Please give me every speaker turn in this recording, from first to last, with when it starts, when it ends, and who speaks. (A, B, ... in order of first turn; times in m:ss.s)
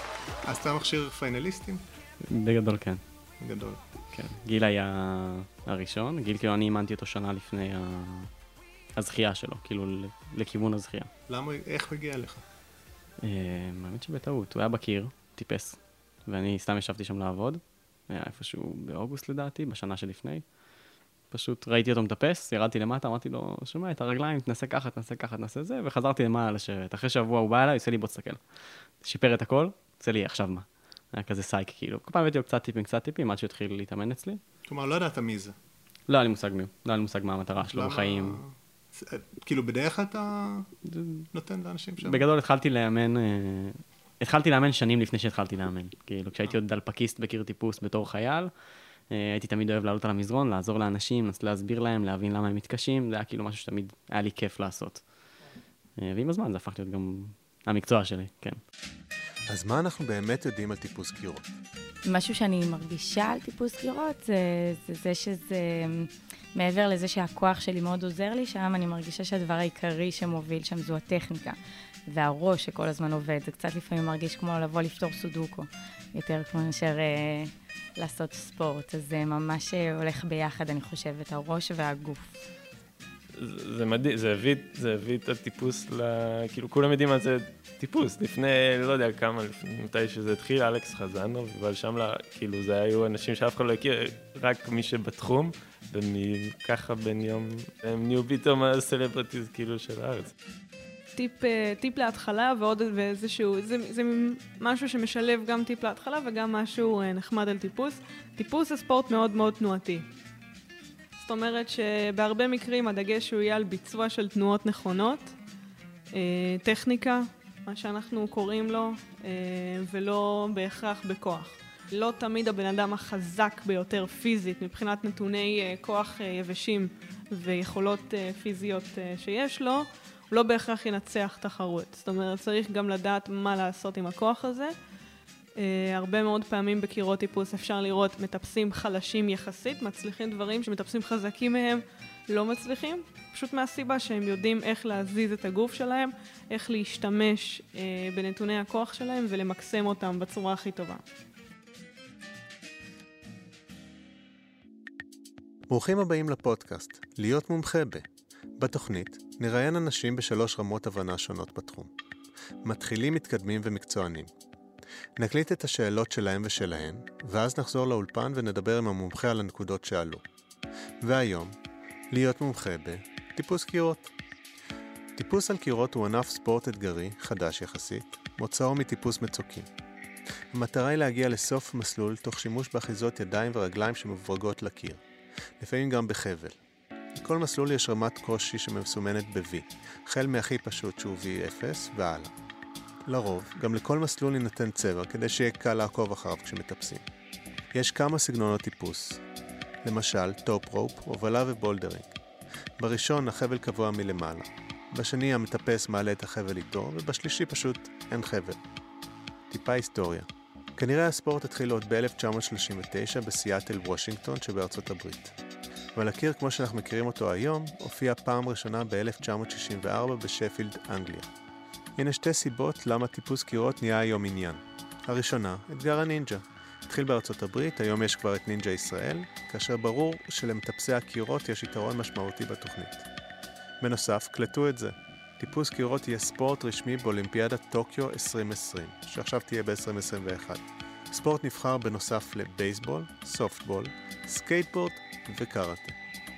0:00.4-0:01.8 A
0:02.2-0:03.0 B
0:03.4-0:03.8 A
0:04.1-0:08.3 B
0:09.0-0:11.1 B
0:11.3-0:12.4 A
0:13.2-0:20.4 B
0:21.3-0:28.4 B
0:29.0-0:34.4 B
0:34.7-0:35.6 A
0:36.1-0:38.4 B
0:37.7-0:40.7 A
0:40.8-0:41.3 B
0:41.3-0:42.2 A
0:42.0-0:48.5 B
0:49.1-0:55.0 B
0:56.0-0:58.6 B
0:59.5-1:01.5 A
1:02.1-1:11.6 C
1:12.1-1:22.3 C
1:23.4-1:40.3 D
1:41.2-1:50.1 E
1:51.2-1:55.4 E
1:56.1-2:14.8 E
2:15.6-2:31.0 E
2:35.7-2:38.1 A
2:38.6-2:41.9 A
2:42.6-2:44.3 A
2:45.2-2:50.2 A
2:51.0-2:51.6 A
2:52.1-2:54.1 A
2:55.2-2:59.7 A
3:00.5-3:05.0 A
3:05.6-3:06.6 A
3:07.2-3:12.3 A
3:13.1-3:17.0 A
3:17.7-3:19.2 A
3:19.8-3:22.2 A
3:22.8-3:28.6 A
3:29.5-3:35.4 A
3:36.0-3:41.3 A
3:42.0-3:53.1 A
3:53.8-4:06.0 A